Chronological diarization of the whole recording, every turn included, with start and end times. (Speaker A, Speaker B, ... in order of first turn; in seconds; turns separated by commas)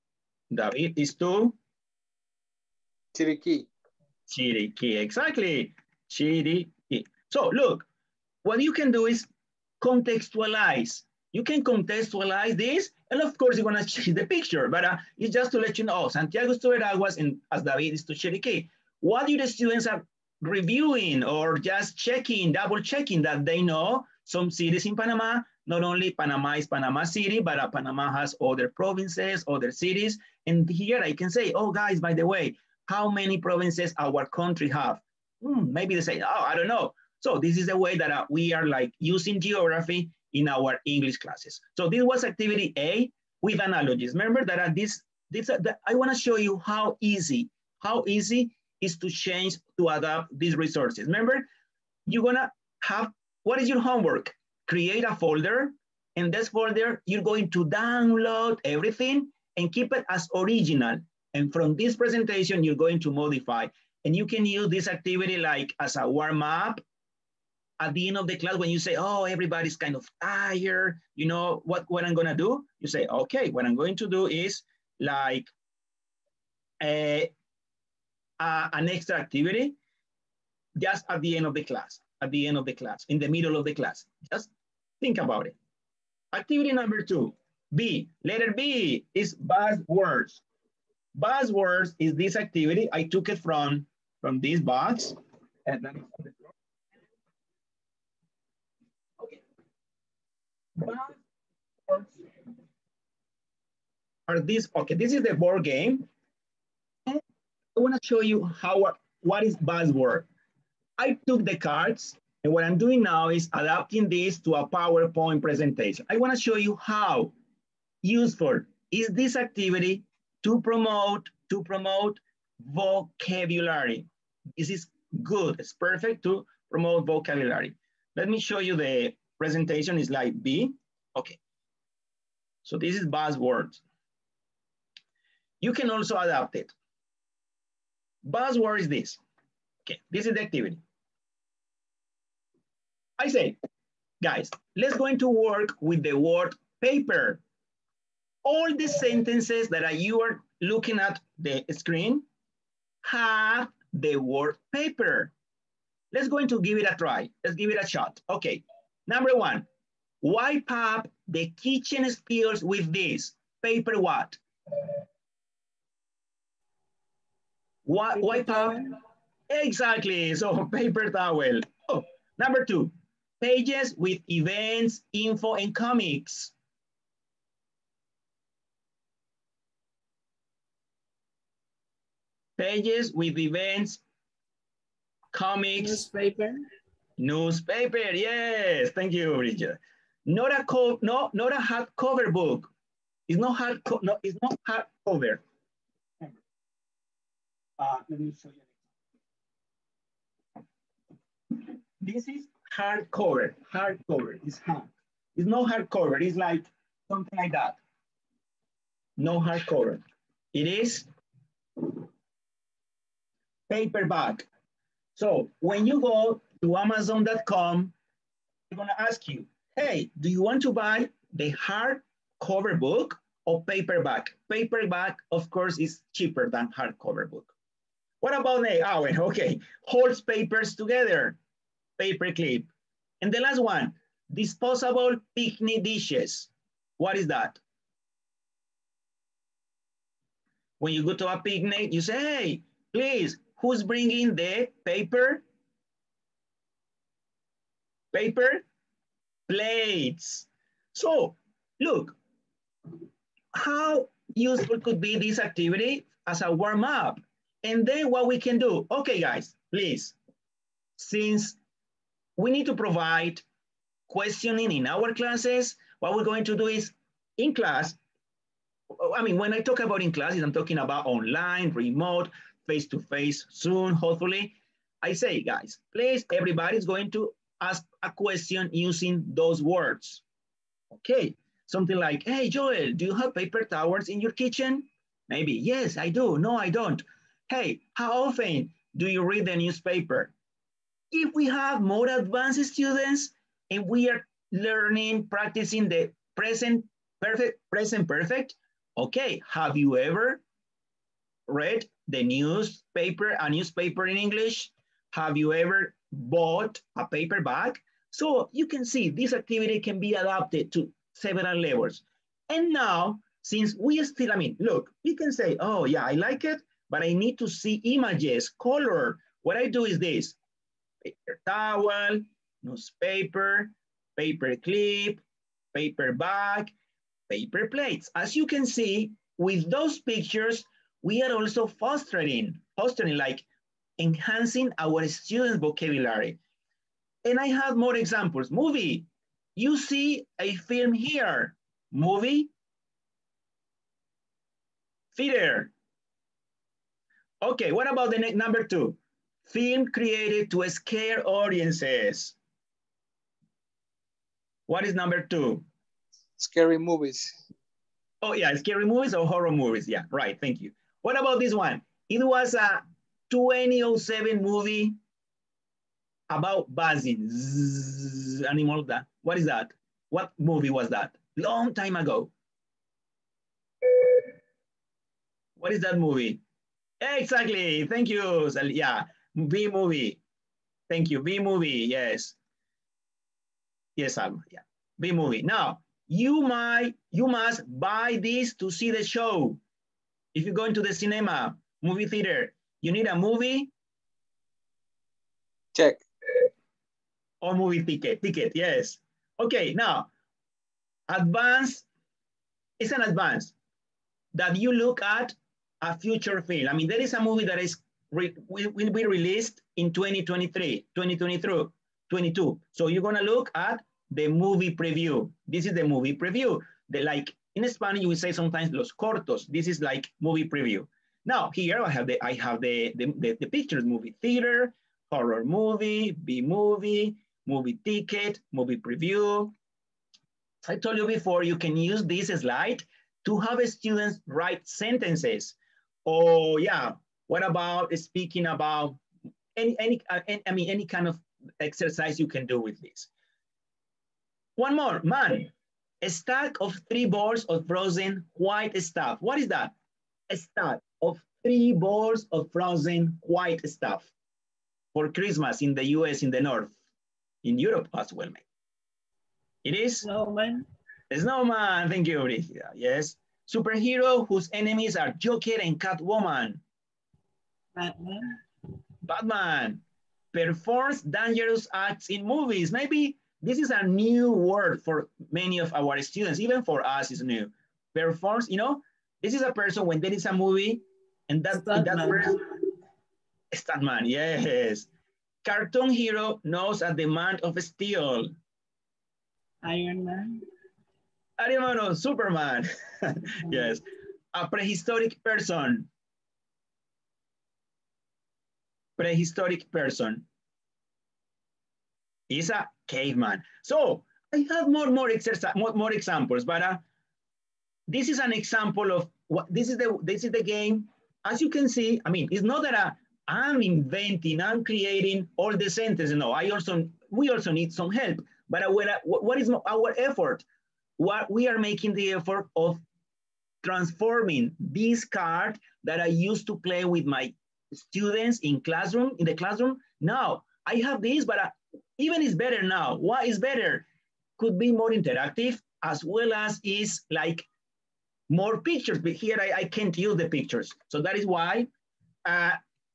Speaker A: 0.5-1.6, Speaker B: 3.1-3.7, Speaker A: 4.3-7.8, Speaker A: 8.4-9.3, Speaker A: 9.8-51.5, Speaker A: 52.1-66.8, Speaker A: 67.8-75.5, Speaker A: 76.8-77.3, Speaker A: 78.4-79.8, Speaker A: 80.8-85.5, Speaker A: 86.3-90.4, Speaker A: 91.1-96.5, Speaker A: 100.8-101.2, Speaker A: 101.9-102.3, Speaker A: 104.3-106.0, Speaker A: 107.7-110.3, Speaker A: 111.0-117.3, Speaker A: 118.0-131.4, Speaker A: 132.6-133.8, Speaker A: 135.6-136.7, Speaker A: 138.2-139.2, Speaker A: 139.8-140.8, Speaker A: 143.2-143.6, Speaker A: 144.2-147.4, Speaker A: 148.4-152.2, Speaker A: 153.0-155.3, Speaker A: 156.1-159.7, Speaker A: 160.2-164.4, Speaker A: 167.8-168.8, Speaker C: 168.2-168.8, Speaker A: 169.5-176.5, Speaker A: 182.6-184.0, Speaker A: 185.3-186.1, Speaker C: 185.8-186.6, Speaker A: 187.2-192.7, Speaker A: 193.3-195.4, Speaker A: 197.8-198.7, Speaker A: 201.5-207.8, Speaker A: 209.2-210.0, Speaker A: 210.5-211.1, Speaker A: 211.8-212.0, Speaker A: 213.7-214.5, Speaker A: 215.2-217.9, Speaker A: 218.7-227.5, Speaker A: 228.2-231.4, Speaker A: 232.0-232.7, Speaker A: 233.2-237.6, Speaker A: 240.8-245.4, Speaker A: 248.1-248.6, Speaker A: 249.5-252.2, Speaker A: 253.5-260.1, Speaker A: 261.0-261.6, Speaker A: 262.4-263.4, Speaker A: 264.1-268.0, Speaker A: 268.9-280.2, Speaker A: 280.9-290.3, Speaker A: 291.1-300.4, Speaker A: 301.5-320.4, Speaker A: 321.0-325.2, Speaker A: 325.7-326.7, Speaker A: 327.3-333.4, Speaker A: 334.0-336.4, Speaker A: 337.2-342.5, Speaker A: 345.1-345.7, Speaker A: 347.4-352.4, Speaker A: 354.7-355.6, Speaker B: 356.4-357.4, Speaker A: 358.2-364.9, Speaker A: 366.3-372.3, Speaker A: 373.8-374.3, Speaker A: 375.6-376.4, Speaker A: 377.0-380.2, Speaker A: 380.9-382.4, Speaker A: 384.0-389.6, Speaker A: 390.3-393.7, Speaker B: 395.7-396.0, Speaker A: 397.4-400.1, Speaker A: 401.1-401.9, Speaker A: 402.8-403.5, Speaker A: 404.3-429.5, Speaker A: 430.6-439.0, Speaker A: 439.6-443.1, Speaker A: 444.6-445.5, Speaker A: 446.0-449.7, Speaker A: 450.3-454.1, Speaker A: 454.9-456.7, Speaker A: 457.4-458.4, Speaker A: 459.6-460.1, Speaker C: 460.0-460.6, Speaker A: 461.1-466.6, Speaker C: 467.8-468.4, Speaker A: 469.0-469.8, Speaker A: 470.3-482.4, Speaker C: 481.5-482.3, Speaker A: 483.5-484.9, Speaker A: 485.4-488.3, Speaker C: 489.6-490.4, Speaker A: 491.4-493.8, Speaker C: 493.5-493.8, Speaker A: 494.3-495.9, Speaker A: 499.0-500.2, Speaker A: 502.3-506.8, Speaker A: 507.9-520.4, Speaker A: 521.0-522.8, Speaker A: 523.6-533.9, Speaker A: 534.4-537.5, Speaker A: 538.3-541.7, Speaker A: 542.2-542.6